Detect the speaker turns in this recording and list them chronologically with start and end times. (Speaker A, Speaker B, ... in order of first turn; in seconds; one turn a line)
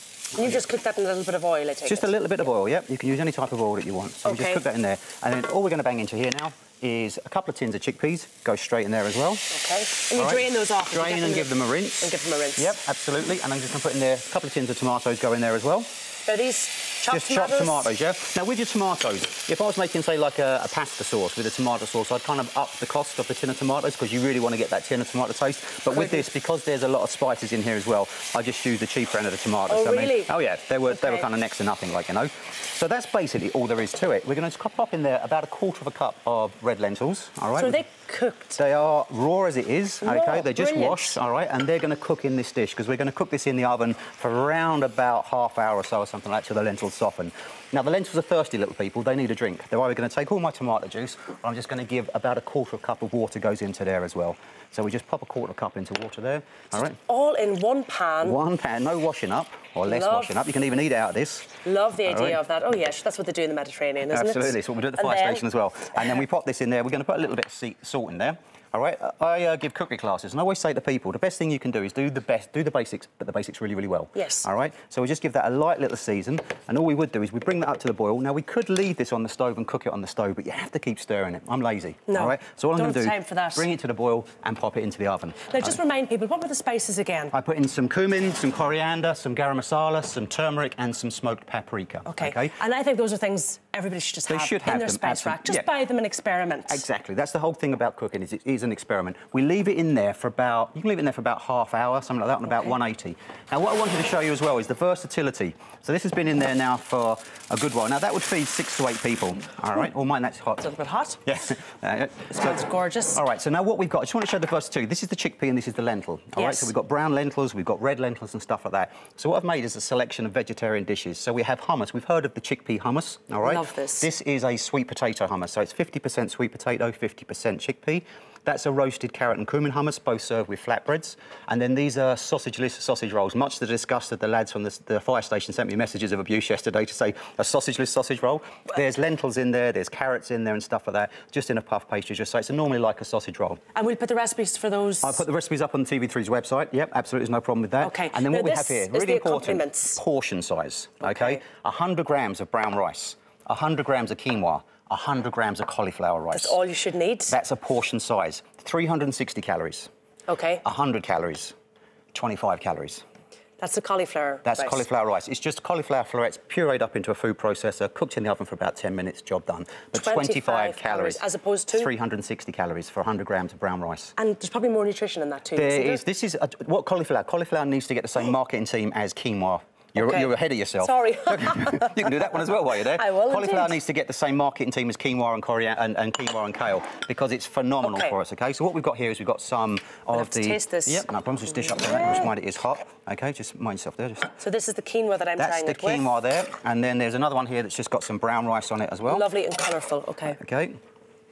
Speaker A: 0.3-0.6
Speaker B: 0.3-2.2
Speaker A: 1.8-9.4
Speaker B: 4.2-4.6
Speaker B: 9.5-12.8
Speaker A: 10.1-15.9
Speaker B: 16.2-17.9
Speaker A: 17.1-37.8
Speaker B: 29.7-30.3
Speaker B: 30.9-31.3
Speaker B: 37.5-38.6
Speaker A: 38.6-57.0
Speaker B: 40.0-41.1
Speaker B: 57.0-58.4
Speaker A: 58.2-61.5
Speaker B: 59.9-60.4
Speaker B: 61.6-65.4
Speaker A: 62.0-62.4
Speaker A: 64.1-85.8
Speaker B: 74.1-74.5
Speaker B: 82.1-83.7
Speaker B: 85.5-87.3
Speaker A: 87.3-92.5
Speaker B: 92.0-96.8
Speaker A: 94.3-95.7
Speaker A: 96.7-110.7
Speaker B: 110.6-111.2
Speaker A: 111.2-143.6
Speaker B: 112.3-113.2
Speaker B: 116.3-116.7
Speaker B: 123.4-124.1
Speaker B: 143.7-145.2
Speaker A: 145.0-156.6
Speaker B: 147.8-150.0
Speaker B: 151.0-151.4
Speaker B: 156.3-157.3
Speaker A: 157.3-159.9
Speaker B: 160.3-160.6
Speaker A: 160.6-161.5
Speaker A: 162.1-163.0
Speaker B: 163.6-164.8
Speaker A: 164.4-174.1
Speaker B: 169.9-171.9
Speaker B: 174.2-176.0
Speaker A: 175.5-194.3
Speaker B: 180.0-182.1
Speaker B: 182.9-183.8
Speaker B: 187.8-188.1
Speaker B: 190.1-191.1
Speaker B: 191.6-192.3
Speaker B: 194.4-196.1
Speaker A: 195.4-199.3
Speaker B: 199.1-200.4
Speaker A: 200.4-200.8